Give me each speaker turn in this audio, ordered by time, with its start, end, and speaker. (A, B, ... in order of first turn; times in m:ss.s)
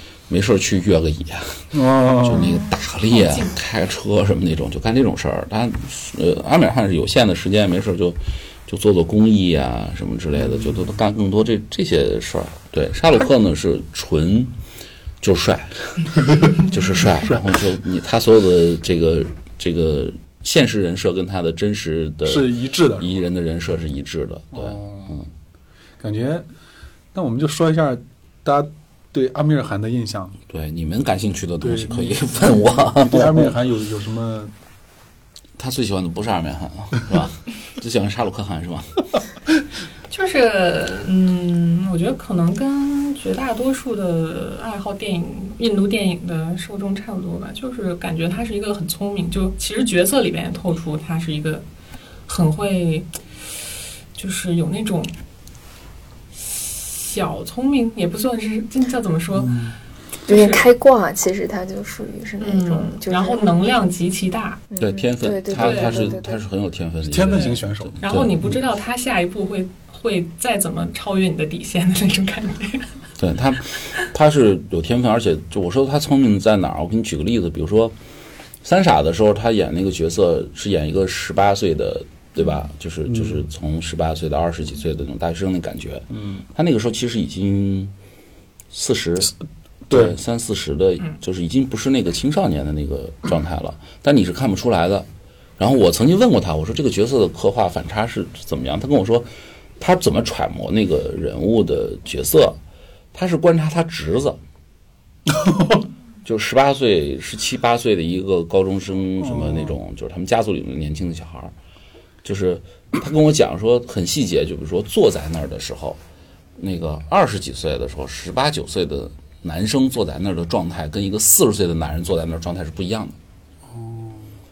0:00.3-0:14.5 A
0:01.7-0:02.6 B
0:03.1-0:03.6 C
0:10.4-0:10.9 B
0:15.2-0:25.3 A
0:16.2-0:16.6 B
0:22.3-0:23.2 B
0:24.5-0:25.2 B
0:26.0-0:26.5 B
0:27.1-0:30.4 B
0:30.5-0:33.6 A
0:31.6-0:34.5 B
0:35.6-0:39.0 A
0:40.1-0:51.6 C
0:52.3-0:53.1 C
0:54.2-0:55.1 C
0:56.5-0:59.7 C
0:59.4-0:59.7 B
1:00.3-1:00.7 C
1:00.3-1:03.4 D
1:02.4-1:04.6 C
1:04.7-1:06.4 D
1:04.8-1:08.4 A
1:05.6-1:06.1 C
1:07.0-1:08.0 B
1:07.2-1:12.9 C
1:13.2-1:17.9 A
1:18.6-1:27.9 A
1:23.1-1:23.4 B
1:26.1-1:26.4 B
1:28.7-1:29.3 A
1:29.9-1:30.2 B
1:29.9-1:35.1 A
1:35.6-1:39.3 A
1:39.8-1:42.6 A
1:43.1-1:44.4 A
1:45.3-1:45.8 B
1:46.2-1:51.5 A
1:49.2-1:49.8 B
1:52.2-1:56.0 A
1:56.6-2:03.2 A
2:03.7-2:04.3 B